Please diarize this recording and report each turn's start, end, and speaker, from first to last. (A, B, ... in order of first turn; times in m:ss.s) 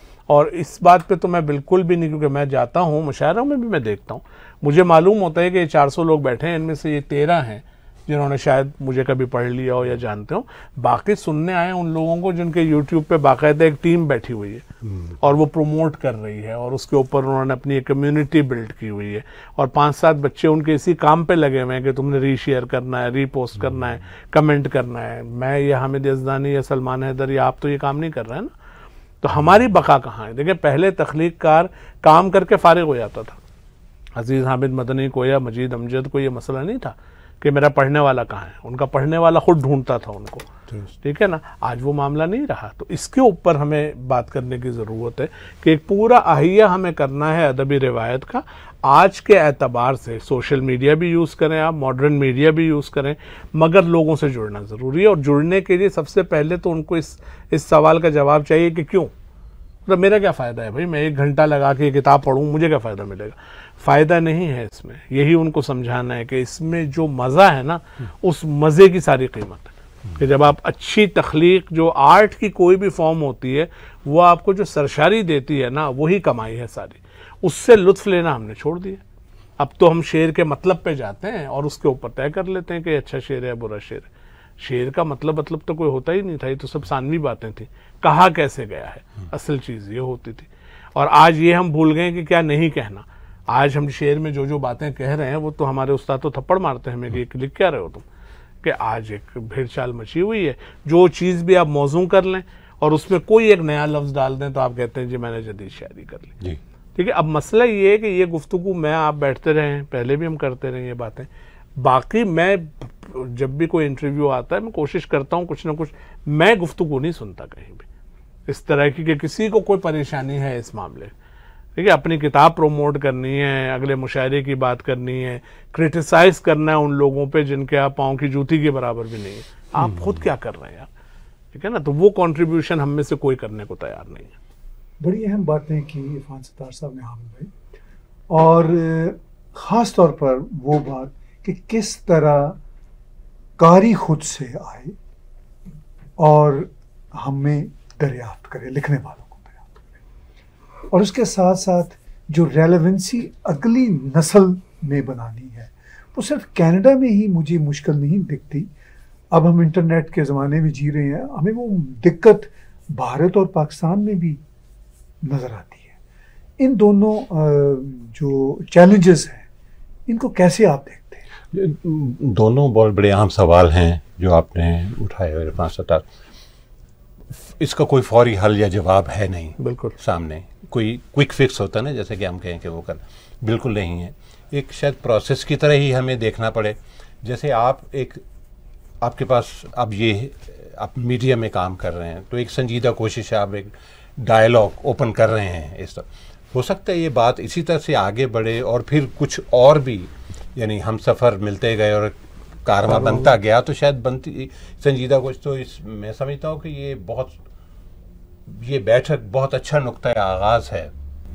0:00.3-0:14.6 A
0:15.2-0:28.5 A
0:29.2-0:33.4 A
0:34.2-0:40.5 A
0:41.0-0:59.1 A
0:59.8-1:19.0 A
1:19.6-1:24.1 A
1:24.6-1:38.0 A
1:38.6-1:46.4 A
1:46.9-1:57.8 A
1:58.5-2:01.1 A
2:01.8-2:10.9 A
2:09.8-2:10.1 B
2:11.5-2:14.3 A
2:15.0-2:17.5 C
2:18.3-2:22.6 C
2:23.6-2:25.0 C
2:26.2-2:29.8 C
2:30.9-2:38.7 C
2:39.3-2:44.4 C
2:45.2-2:45.9 C
2:46.6-2:49.4 C
2:50.1-2:51.2 C
2:51.5-2:56.0 B
2:57.4-3:08.2 B
2:59.6-3:00.0 A
3:09.0-3:27.4 B
3:22.8-3:23.3 A
3:28.5-3:30.9 B